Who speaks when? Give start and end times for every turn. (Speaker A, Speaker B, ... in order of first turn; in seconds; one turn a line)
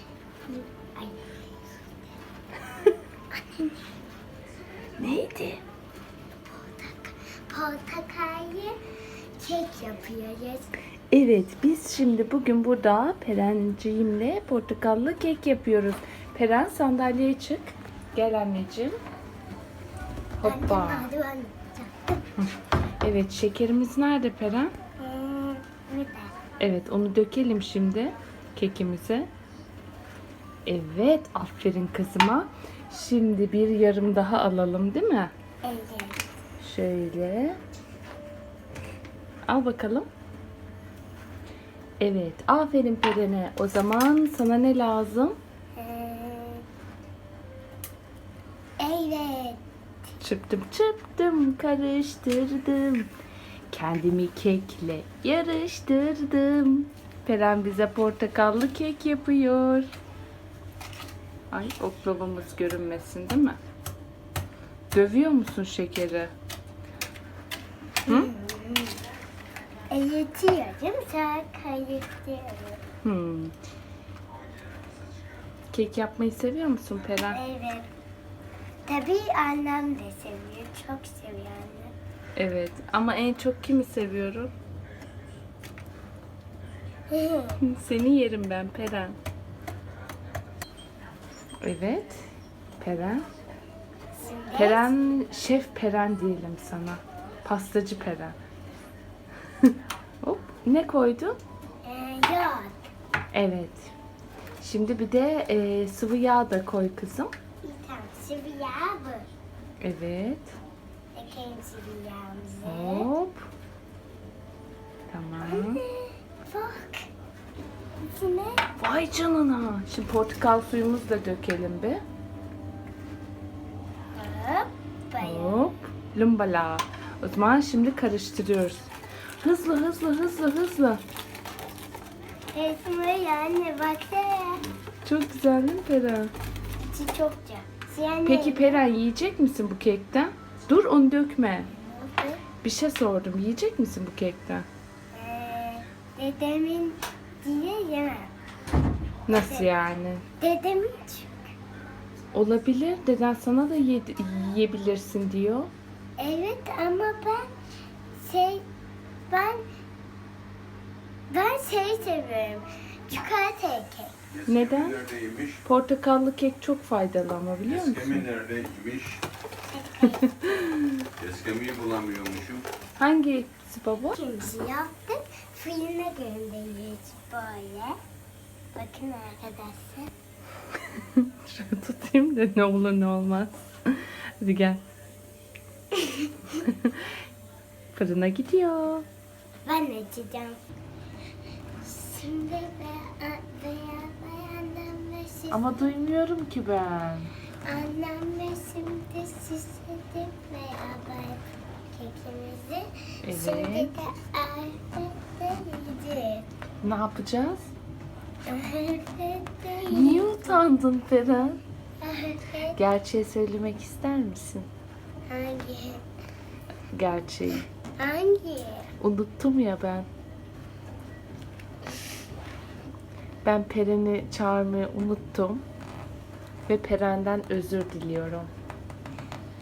Speaker A: 0.5-2.0
Speaker A: 3.4-3.8
Speaker B: 5.0-5.6
Speaker A: 6.5-8.8
Speaker A: 9.4-10.7
Speaker B: 11.1-19.0
Speaker B: 20.4-21.1
Speaker A: 20.4-22.3
Speaker B: 22.4-24.7
Speaker A: 25.0-26.4
Speaker B: 26.6-29.3
Speaker B: 30.7-35.3
Speaker A: 35.6-36.2
Speaker B: 36.6-37.6
Speaker B: 39.5-40.1
Speaker B: 42.0-45.4
Speaker A: 45.8-46.7
Speaker A: 48.8-49.6
Speaker B: 50.2-53.1
Speaker B: 53.7-59.9
Speaker B: 61.5-63.6
Speaker B: 64.9-66.3
Speaker A: 68.1-69.0
Speaker A: 69.9-72.8
Speaker B: 73.0-73.5
Speaker B: 75.7-77.4
Speaker A: 77.2-77.9
Speaker A: 78.9-81.9
Speaker B: 82.4-84.5
Speaker A: 87.1-87.6
Speaker B: 87.6-89.2
Speaker B: 91.6-92.3
Speaker B: 92.8-93.3
Speaker A: 94.2-94.9
Speaker B: 94.6-98.4
Speaker B: 99.6-101.4
Speaker A: 101.8-102.8
Speaker B: 103.3-103.9
Speaker B: 104.6-107.3
Speaker A: 107.6-109.3
Speaker B: 109.8-110.6
Speaker A: 111.2-113.1
Speaker B: 112.7-113.5
Speaker B: 115.1-115.8
Speaker A: 115.4-117.1
Speaker A: 118.0-118.7
Speaker B: 118.8-122.0
Speaker A: 124.1-125.6
Speaker B: 125.2-128.9
Speaker B: 129.4-131.0
Speaker A: 132.5-134.7
Speaker B: 135.0-136.3
Speaker A: 136.8-138.8
Speaker B: 138.3-141.7
Speaker A: 141.7-142.4
Speaker B: 142.6-144.7
Speaker A: 145.1-148.3
Speaker B: 149.3-150.2
Speaker A: 149.3-149.7
Speaker A: 150.4-151.3
Speaker B: 152.3-155.7
Speaker A: 156.2-157.5
Speaker A: 158.2-158.6
Speaker A: 159.3-159.6
Speaker A: 161.3-164.2
Speaker B: 164.5-165.0
Speaker C: 164.8-165.6
Speaker B: 165.6-168.3
Speaker C: 168.2-169.2
Speaker A: 169.7-170.6
Speaker B: 170.6-171.1
Speaker C: 171.2-172.7
Speaker B: 173.0-174.2
Speaker A: 174.2-178.0
Speaker A: 178.8-180.1
Speaker B: 180.9-184.8
Speaker A: 185.9-186.6
Speaker B: 186.5-187.1
Speaker B: 187.9-189.1
Speaker A: 189.7-190.6
Speaker A: 191.8-195.9
Speaker B: 195.5-197.3
Speaker A: 197.6-206.5
Speaker B: 203.2-203.9
Speaker B: 206.8-207.7
Speaker A: 208.5-210.6
Speaker B: 209.9-211.6
Speaker A: 212.0-212.8
Speaker B: 212.8-214.7
Speaker A: 215.3-216.0
Speaker B: 216.9-217.7
Speaker A: 218.0-218.9
Speaker B: 219.0-220.1
Speaker B: 223.4-225.6
Speaker B: 226.7-228.5